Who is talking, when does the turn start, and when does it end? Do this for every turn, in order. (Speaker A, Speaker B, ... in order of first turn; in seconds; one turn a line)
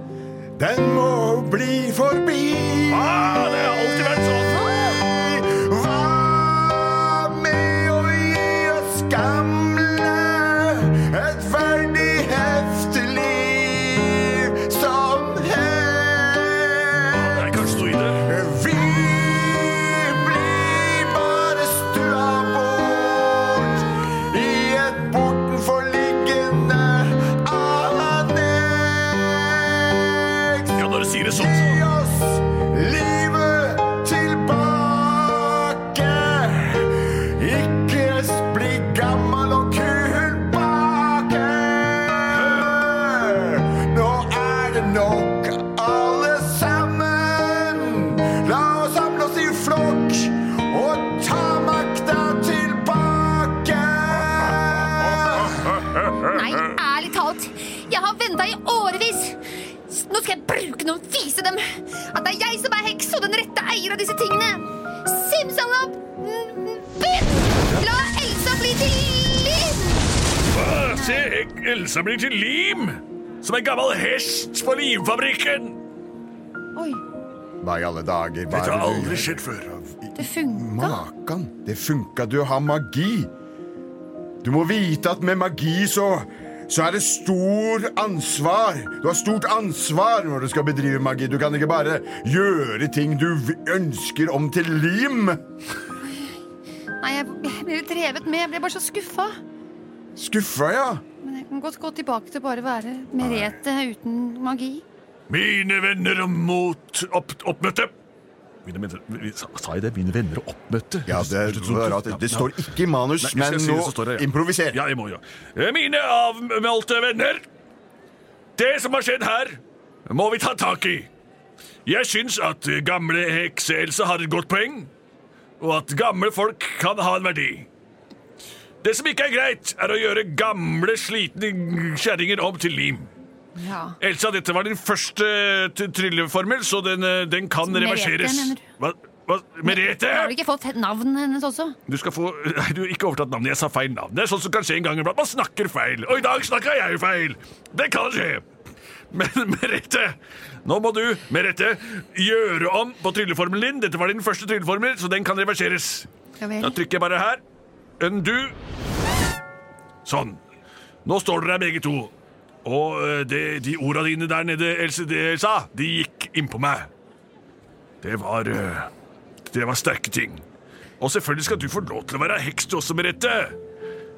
Speaker A: 0.6-17.5
Speaker B: 2.9-4.8
Speaker B: 17.1-18.3
Speaker A: 18.1-55.8
Speaker B: 30.7-31.9
Speaker B: 56.0-56.3
Speaker C: 56.2-70.1
Speaker B: 70.5-75.8
Speaker C: 70.9-71.3
Speaker C: 76.7-77.0
Speaker A: 77.6-79.4
Speaker B: 78.5-79.8
Speaker A: 80.0-83.3
Speaker C: 80.2-81.0
Speaker A: 84.4-95.4
Speaker C: 96.1-96.3
Speaker C: 97.0-99.3
Speaker A: 100.2-101.0
Speaker C: 101.2-104.8
Speaker A: 103.2-103.5
Speaker B: 105.3-107.9
Speaker B: 108.6-112.6
Speaker A: 111.0-114.8
Speaker B: 113.2-117.5
Speaker B: 118.6-121.1
Speaker B: 121.8-124.9
Speaker B: 125.6-127.7
Speaker B: 128.8-133.1
Speaker C: 133.6-134.0
Speaker B: 134.0-140.3
Speaker C: 137.6-138.6
Speaker C: 139.6-141.8
Speaker B: 141.9-148.4
Speaker B: 149.1-157.4
Speaker C: 156.4-156.8
Speaker B: 158.0-158.6
Speaker B: 160.0-160.4
Speaker B: 161.0-162.1
Speaker B: 162.6-166.9
Speaker B: 168.0-168.9
Speaker B: 169.5-170.4
Speaker B: 171.0-173.6